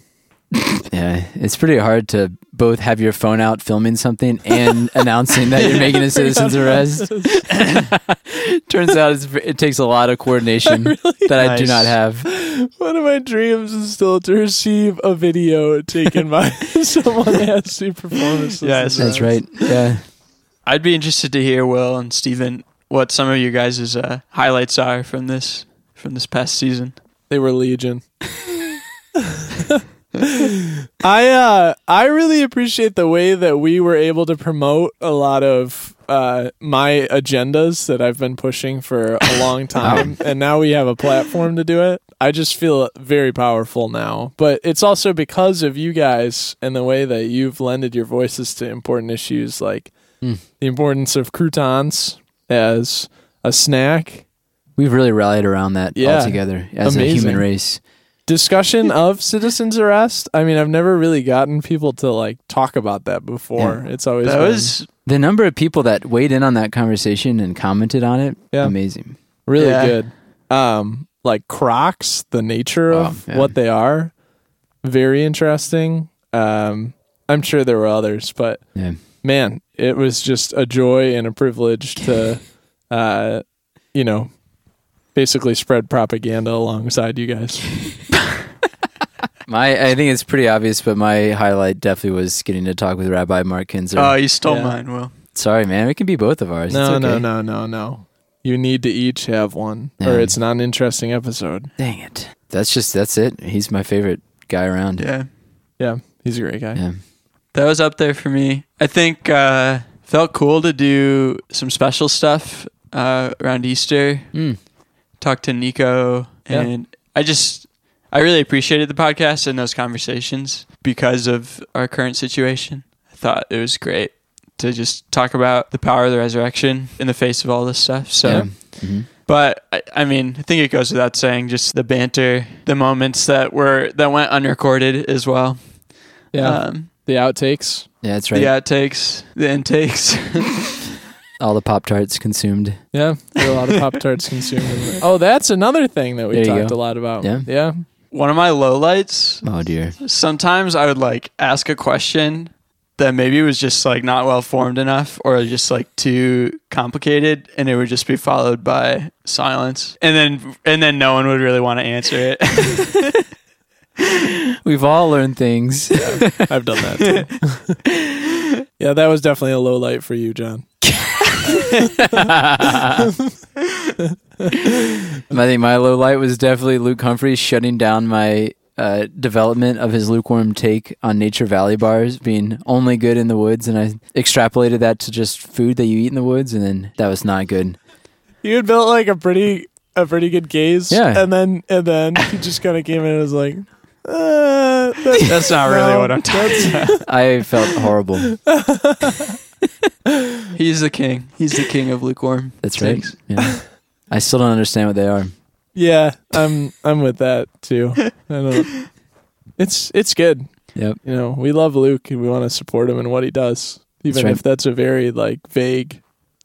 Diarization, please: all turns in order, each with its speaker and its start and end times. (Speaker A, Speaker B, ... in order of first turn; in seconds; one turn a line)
Speaker A: 0.6-12.3
Speaker B: 5.5-7.5
Speaker B: 10.7-11.4
Speaker C: 11.4-12.0
Speaker B: 12.2-19.6
Speaker C: 18.6-19.4
Speaker A: 19.0-20.1
Speaker C: 20.6-27.0
Speaker B: 27.3-28.1
Speaker B: 30.2-49.9
Speaker A: 39.8-40.1
Speaker B: 50.5-54.2
Speaker A: 54.8-57.8
Speaker B: 55.9-57.5
Speaker B: 58.2-64.7
Speaker C: 64.2-64.9
Speaker A: 65.0-69.2
Speaker B: 68.5-68.8
Speaker B: 69.4-74.1
Speaker C: 69.5-70.0
Speaker A: 72.9-73.5
Speaker B: 74.8-84.3
Speaker B: 85.1-87.8
Speaker A: 89.5-94.2
Speaker C: 93.9-95.1
Speaker B: 94.4-94.8
Speaker A: 95.3-97.2
Speaker B: 96.7-101.7
Speaker A: 100.0-100.3
Speaker A: 101.8-105.0
Speaker C: 105.0-105.3
Speaker B: 105.8-106.8
Speaker C: 107.5-114.5
Speaker A: 114.3-114.6
Speaker C: 115.2-136.9
Speaker A: 128.2-129.1
Speaker B: 136.3-137.9
Speaker A: 138.0-138.5
Speaker C: 138.3-140.8
Speaker A: 141.4-142.8
Speaker B: 142.9-147.8
Speaker C: 143.4-143.8
Speaker A: 146.3-147.5
Speaker C: 148.1-163.2
Speaker A: 149.4-149.9
Speaker A: 164.6-166.4
Speaker B: 165.9-167.8
Speaker B: 168.8-170.7
Speaker A: 172.0-173.0
Speaker B: 174.0-174.7
Speaker A: 175.3-187.8
Speaker B: 188.4-197.1
Speaker A: 190.9-191.2
Speaker C: 195.2-197.0
Speaker A: 196.9-198.5
Speaker B: 198.3-199.3
Speaker C: 200.5-203.2
Speaker A: 202.6-205.3
Speaker B: 205.7-209.0
Speaker B: 209.6-216.0
Speaker A: 214.1-214.4